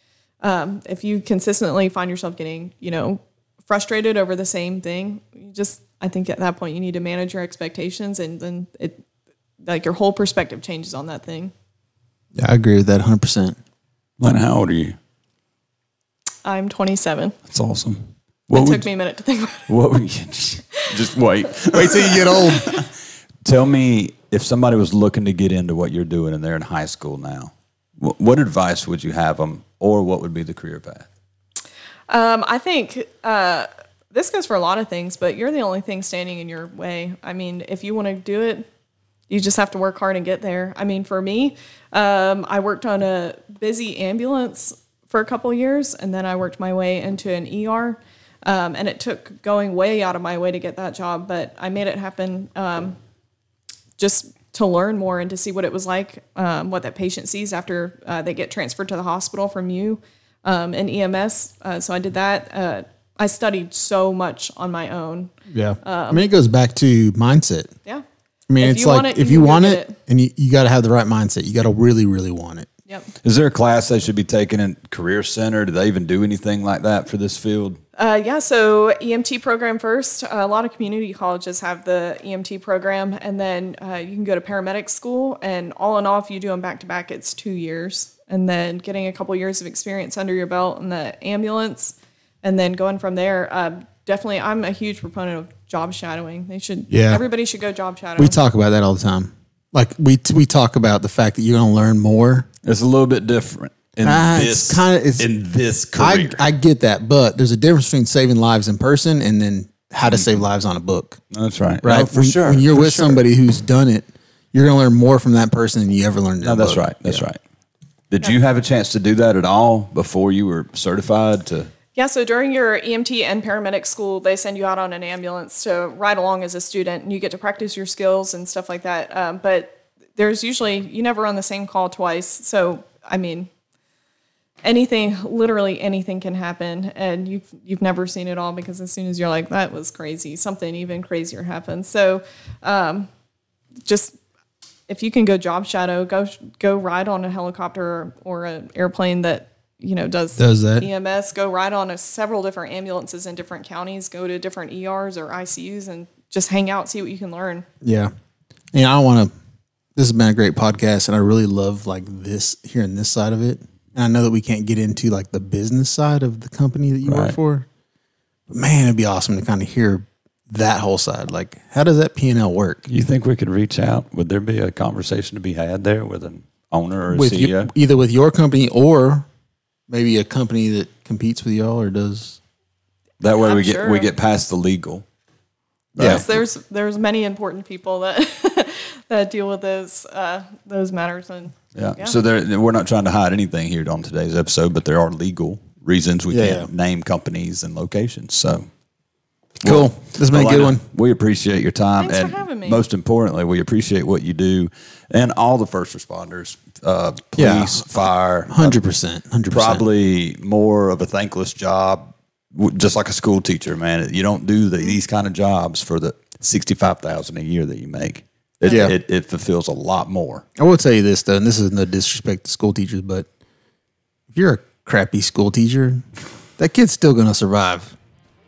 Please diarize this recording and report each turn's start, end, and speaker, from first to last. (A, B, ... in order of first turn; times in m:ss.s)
0:00.4-0:09.0 A
0:09.6-0:11.5 A
0:12.4-0:13.6 B
0:14.2-0:15.0 C
0:16.4-0:17.4 A
0:17.5-0:18.9 C
0:18.5-0:19.7 A
0:19.7-0:22.9 C
0:21.7-0:22.7 B
0:23.4-0:31.1 C
0:32.1-0:38.7 A
0:39.3-0:53.0 A
0:54.0-1:06.2 A
1:05.5-1:07.7 B
1:08.5-1:12.7 B
1:08.6-1:10.0 A
1:13.2-1:17.8 C
1:18.0-1:38.4 A
1:36.9-1:37.2 B
1:38.2-1:42.5 B
1:42.6-1:46.4 C
1:44.0-1:45.3 B
1:46.0-1:51.2 B
1:50.0-1:50.4 C
1:51.3-1:53.2 C
1:51.8-1:57.2 B
1:56.4-1:57.4 C
1:58.1-2:01.7 C
2:02.0-2:13.5 A
2:14.6-2:23.1 A
2:23.8-2:24.2 A
2:24.9-2:37.7 A
2:30.4-2:30.9 B
2:37.8-2:38.1 B
2:38.7-2:39.3 B
2:40.0-2:47.7 B
2:47.0-2:47.4 C
2:48.5-2:52.9 B
2:52.9-2:57.7 C
2:57.1-2:59.3 B
2:59.9-3:02.4 B
3:03.2-3:05.0 C
3:03.3-3:04.1 A
3:06.0-3:06.4 C
3:06.0-3:06.2 B
3:06.0-3:12.2 A
3:11.8-3:18.7 C
3:16.3-3:16.7 B
3:19.6-3:20.8 B
3:19.6-3:28.8 C
3:22.0-3:22.8 A
3:27.4-3:27.9 B
3:28.5-3:29.8 B
3:29.5-3:40.4 C
3:38.6-3:38.9 B
3:38.7-3:38.9 A
3:40.6-3:43.3 B
3:44.3-3:46.1 B
3:46.6-3:48.0 B